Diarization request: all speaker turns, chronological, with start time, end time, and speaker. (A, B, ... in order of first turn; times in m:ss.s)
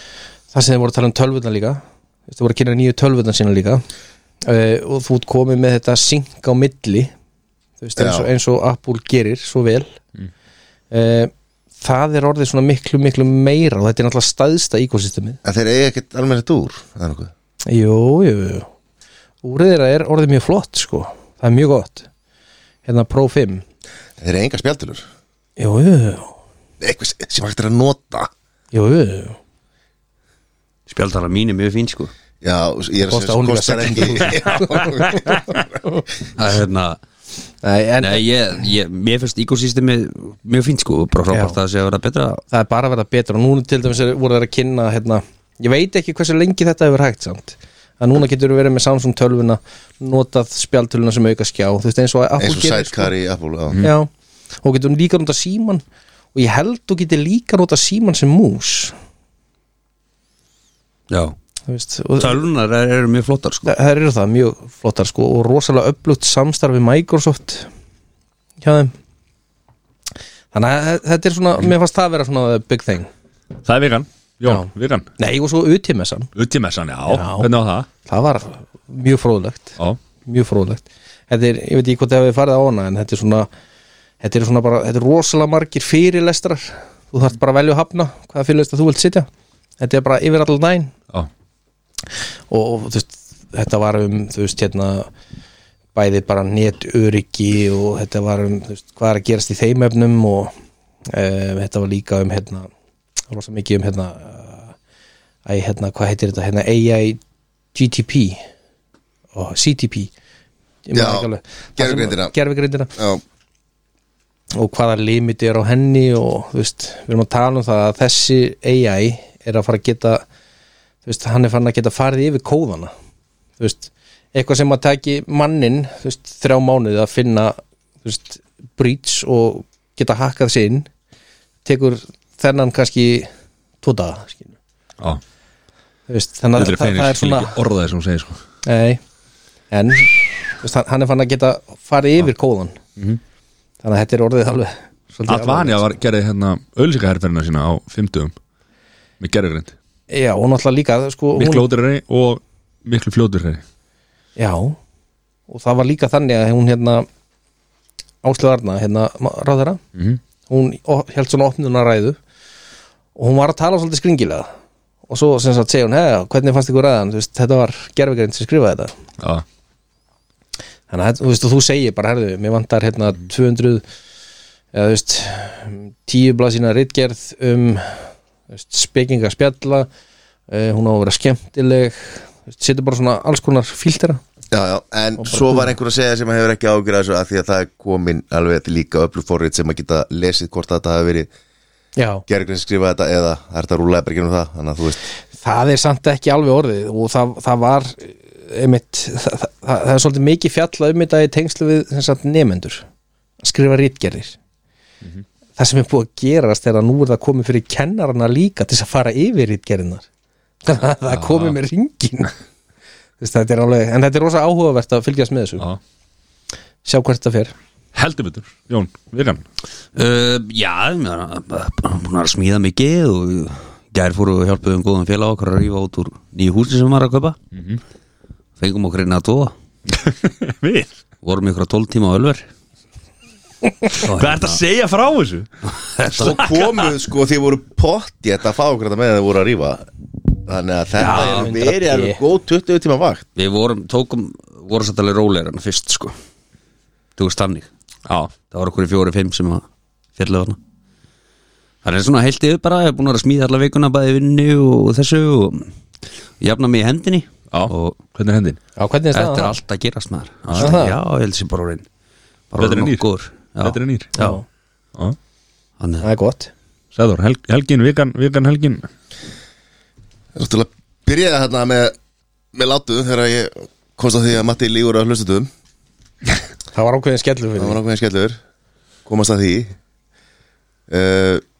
0:00.5-0:03.8 A
0:04.4-0:07.1 A
0:07.8-0:09.9 A
0:08.0-0:08.3 B
0:10.9-0:15.4 A
0:15.4-0:17.3 B
0:17.6-0:18.7 A
0:19.4-0:22.1 A
0:22.8-0:23.6 A
0:24.2-0:25.0 B
0:25.6-0:26.3 A
0:26.8-0:28.3 B
0:28.7-0:29.4 A
0:30.9-0:32.1 C
0:32.4-0:35.4 B
0:33.1-0:35.1 A
0:35.0-0:35.6 D
0:36.4-0:37.0 C
0:37.6-0:38.2 A
0:38.0-0:42.4 C
0:41.3-0:41.6 A
0:42.5-0:53.1 A
0:52.4-0:53.8 B
0:53.8-0:54.1 A
0:54.6-0:55.8 A
0:56.3-0:58.9 A
1:01.1-1:01.4 C
1:01.7-1:02.4 A
1:02.2-1:03.7 C
1:03.6-1:07.7 A
1:08.6-1:08.9 A
1:10.5-1:13.1 A
1:13.6-1:15.1 D
1:14.4-1:16.3 A
1:16.3-1:17.9 D
1:17.1-1:17.5 A
1:18.0-1:23.5 A
1:24.2-1:29.3 A
1:29.8-1:30.9 A
1:32.5-1:35.1 A
1:35.9-1:40.5 A
1:41.1-1:42.7 A
1:43.3-1:44.7 A
1:45.4-1:47.2 A
1:47.7-1:48.4 A
1:49.3-1:50.1 A
1:50.8-1:52.9 A
1:50.9-1:52.3 B
1:52.9-1:53.2 B
1:54.5-2:00.2 A
2:01.0-2:02.9 A
2:03.6-2:10.9 A
2:11.6-2:13.3 A
2:13.8-2:14.5 A
2:16.1-2:17.6 A
2:16.6-2:18.4 D
2:18.6-2:19.0 A
2:19.7-2:22.8 A
2:23.8-2:25.8 A
2:25.3-2:28.3 D
2:29.2-2:29.7 D
2:30.1-2:31.7 A
2:31.4-2:33.6 D
2:34.4-2:34.8 A
2:35.5-2:37.1 A
2:38.2-2:39.8 A
2:39.9-2:40.2 D
2:40.5-2:42.2 A
2:43.2-2:44.5 A
2:45.1-2:48.9 A
2:50.9-2:53.8 A
2:54.7-2:59.9 A
3:00.5-3:04.2 A
3:04.5-3:11.3 B
3:05.2-3:05.7 A
3:12.0-3:12.2 A
3:12.3-3:15.0 B
3:15.4-3:22.8 A
3:23.4-3:24.4 A
3:25.6-3:30.0 A
3:30.6-3:32.3 A
3:31.1-3:31.6 D
3:33.2-3:35.6 A
3:36.8-3:37.5 A
3:37.9-3:39.4 D
3:39.9-3:47.4 C
3:47.5-3:47.8 D
3:48.6-3:49.5 C
3:49.9-3:50.9 D
3:51.2-3:52.5 C
3:54.0-3:54.6 C
3:54.0-3:55.5 D
3:55.7-3:56.6 C
3:56.1-3:59.9 B
4:00.4-4:03.3 B
4:01.0-4:01.5 C
4:01.0-4:02.2 A
4:03.4-4:06.1 C
4:07.2-4:07.7 C
4:08.1-4:08.3 D
4:08.5-4:09.6 C
4:10.2-4:10.6 C
4:11.8-4:15.7 C
4:16.4-4:18.0 C
4:17.5-4:18.6 D
4:18.8-4:19.5 A
4:19.1-4:21.8 C
4:20.4-4:20.8 D
4:20.6-4:21.0 A
4:22.5-4:24.3 C
4:22.6-4:23.0 D
4:23.6-4:24.1 D
4:24.2-4:24.4 A
4:25.8-4:26.0 C
4:26.0-4:26.5 A
4:26.9-4:28.9 D
4:30.3-4:31.9 B
4:32.5-4:35.5 B
4:36.7-4:37.8 A
4:37.6-4:38.4 B
4:39.0-4:39.7 B
4:40.9-4:41.4 B